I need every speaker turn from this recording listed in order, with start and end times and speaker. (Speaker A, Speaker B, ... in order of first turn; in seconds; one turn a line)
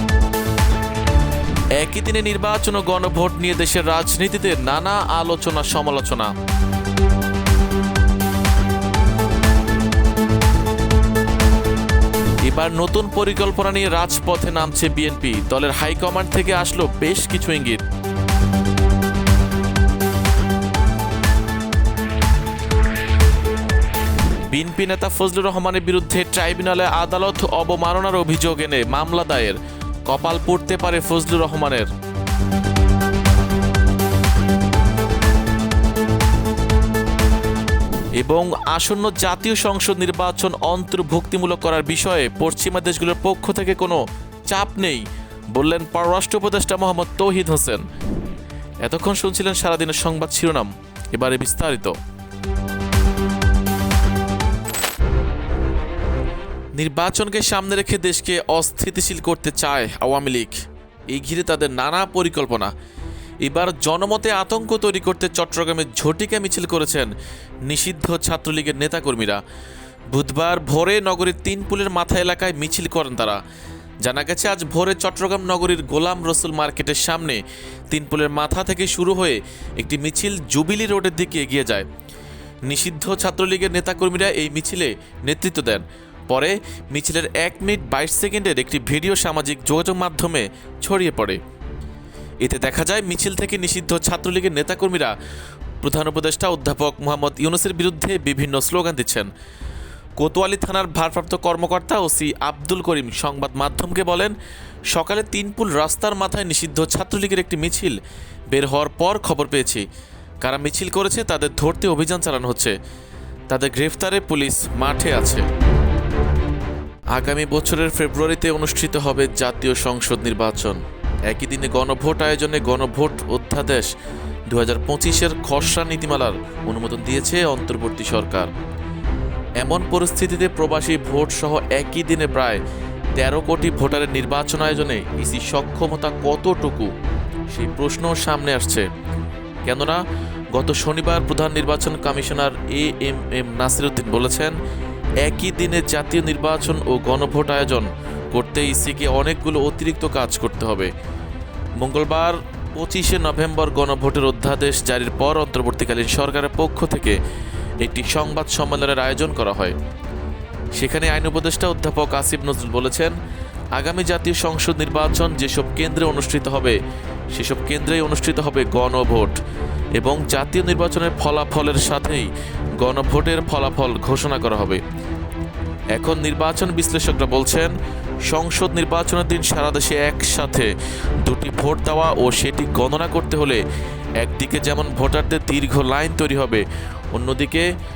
Speaker A: 1.8-6.3
Speaker A: 12.4-17.8
Speaker A: 24.5-31.9
Speaker A: 38.2-47.8
Speaker A: 48.8-51.9
Speaker A: 56.7-62.7
Speaker A: 63.4-67.1
Speaker A: 67.7-69.4
Speaker A: 70.1-73.4
Speaker A: 74.0-81.9
Speaker A: 82.7-91.4
Speaker A: 92.4-95.1
Speaker A: 95.8-99.3
Speaker A: 100.2-104.3
Speaker A: 104.9-108.0
Speaker A: 108.5-109.8
Speaker A: 110.4-112.8
Speaker A: 113.5-115.5
Speaker A: 117.1-123.9
Speaker A: 124.5-128.5
Speaker A: 129.6-132.6
Speaker A: 133.2-136.9
Speaker A: 137.5-138.9
Speaker A: 139.6-140.0
Speaker A: 140.5-144.6
Speaker A: 145.2-150.9
Speaker A: 151.8-157.2
Speaker A: 157.8-159.8
Speaker A: 160.8-163.2
Speaker A: 163.8-166.8
Speaker A: 167.3-169.4
Speaker A: 169.9-174.8
Speaker A: 175.9-177.7
Speaker A: 178.2-180.7
Speaker A: 181.2-183.6
Speaker A: 184.2-187.7